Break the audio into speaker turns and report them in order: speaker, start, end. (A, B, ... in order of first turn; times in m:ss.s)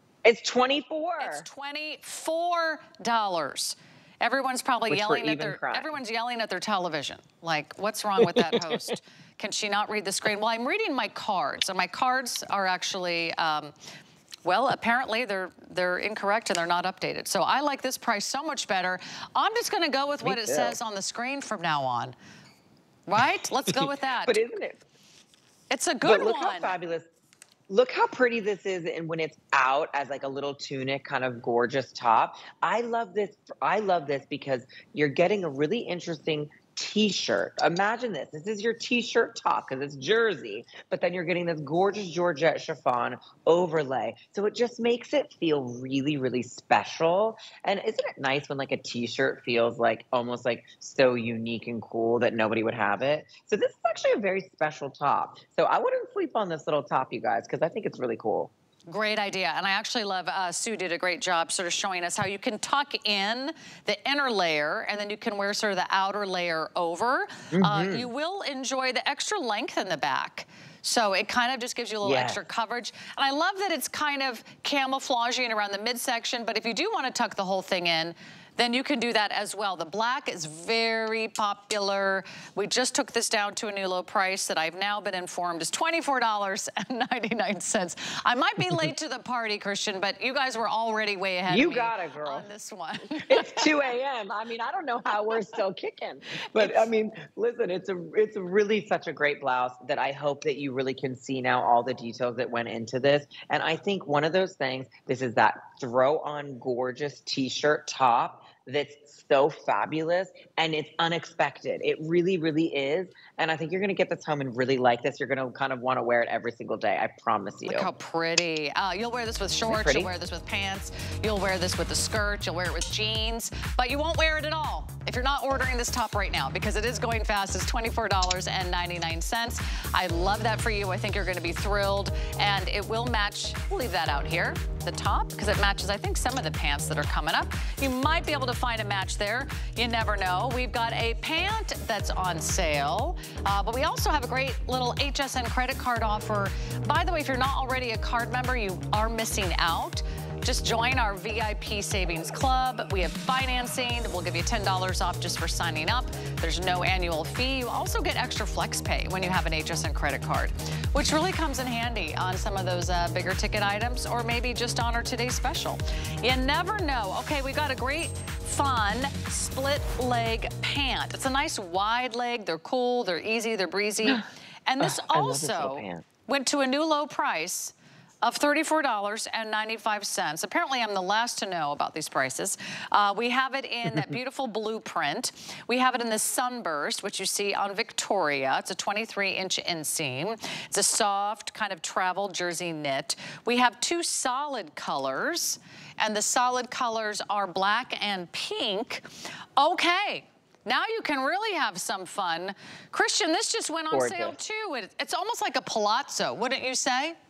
0:00.2-0:01.5 A
0:01.2-0:13.7 B
0:04.9-0:05.9 A
0:08.2-0:08.8 A
0:14.4-0:22.2 B
0:20.2-0:20.8 A
0:23.1-0:24.6 B
0:23.7-0:24.8 A
0:25.7-0:26.7 B
0:26.0-0:27.0 A
0:27.7-0:58.5 A
0:58.9-1:33.7 B
1:07.5-1:08.1 A
1:12.0-1:12.4 A
1:31.5-1:32.5 A
1:33.2-1:57.9 A
1:36.5-1:36.9 B
1:57.6-3:19.0 B
1:59.7-2:00.1 A
2:54.8-2:56.0 A
3:19.6-3:27.2 B
3:23.9-3:24.4 A